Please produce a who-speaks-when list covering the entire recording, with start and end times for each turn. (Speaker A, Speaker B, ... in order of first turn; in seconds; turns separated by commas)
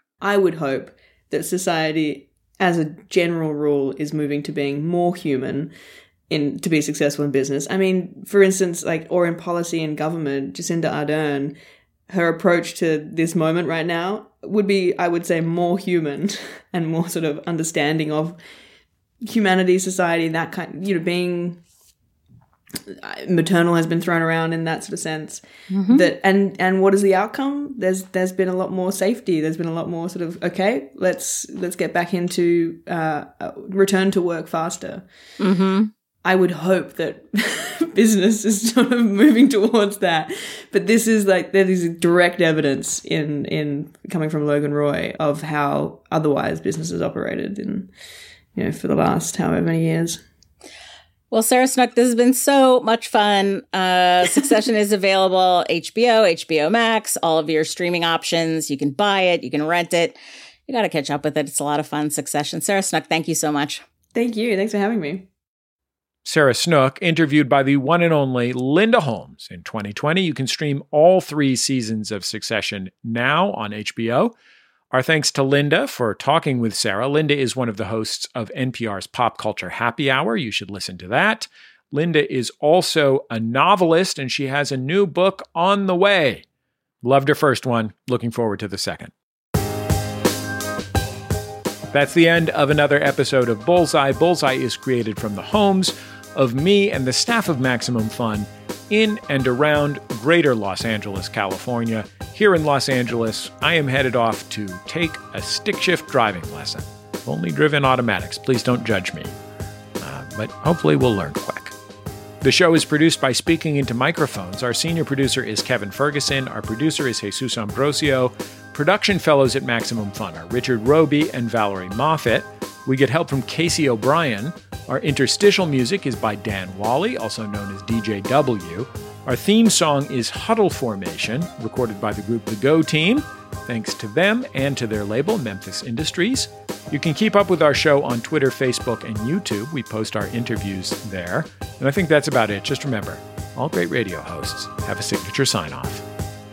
Speaker A: 0.2-5.7, Speaker A: 6.3-11.6, Speaker A: 12.1-18.4, Speaker A: 19.2-21.6, Speaker A: 22.9-35.0, Speaker B: 25.7-26.1, Speaker B: 35.4-35.9, Speaker A: 36.2-47.9, Speaker A: 48.5-50.2, Speaker B: 51.3-63.8, Speaker A: 64.1-65.3, Speaker C: 66.2-74.3, Speaker C: 74.9-86.4, Speaker C: 87.0-89.1, Speaker C: 91.9-109.4, Speaker C: 110.0-111.7, Speaker C: 112.4-146.0